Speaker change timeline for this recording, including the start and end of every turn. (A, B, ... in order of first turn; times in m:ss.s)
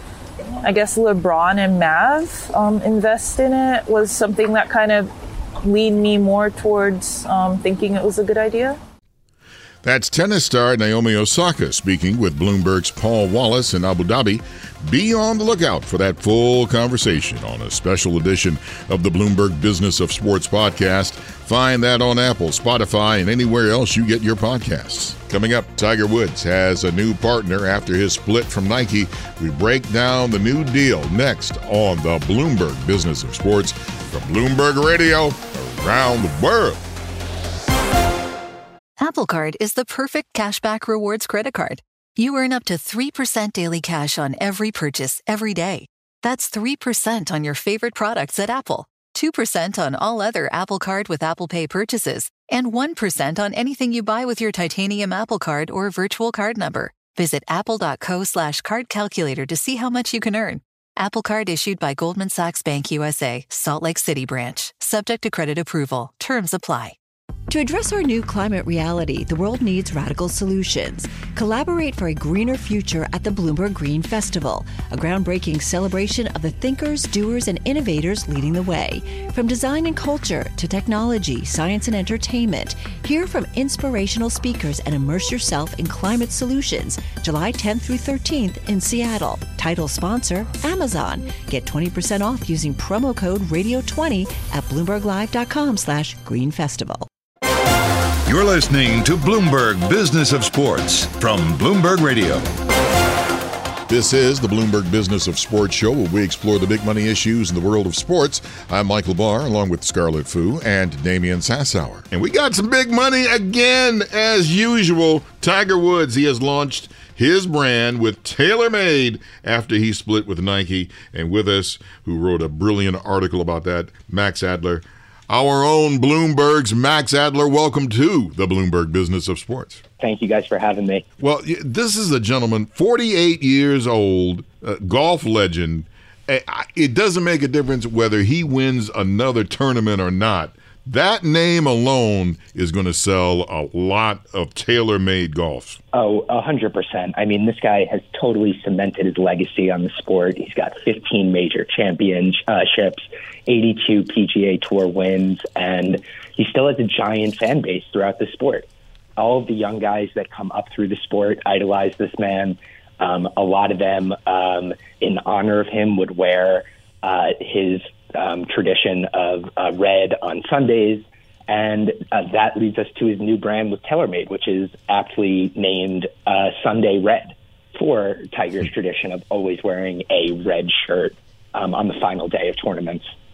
0:00.6-0:05.1 A
0:05.6-0:08.8 A
0:09.8-0:36.8 B
0:39.0-1:06.9 C
1:07.5-1:37.1 D
1:38.3-1:42.5 E
1:43.9-2:09.8 B
2:10.0-2:11.0 F
2:11.2-2:25.8 B
2:25.9-3:03.0 F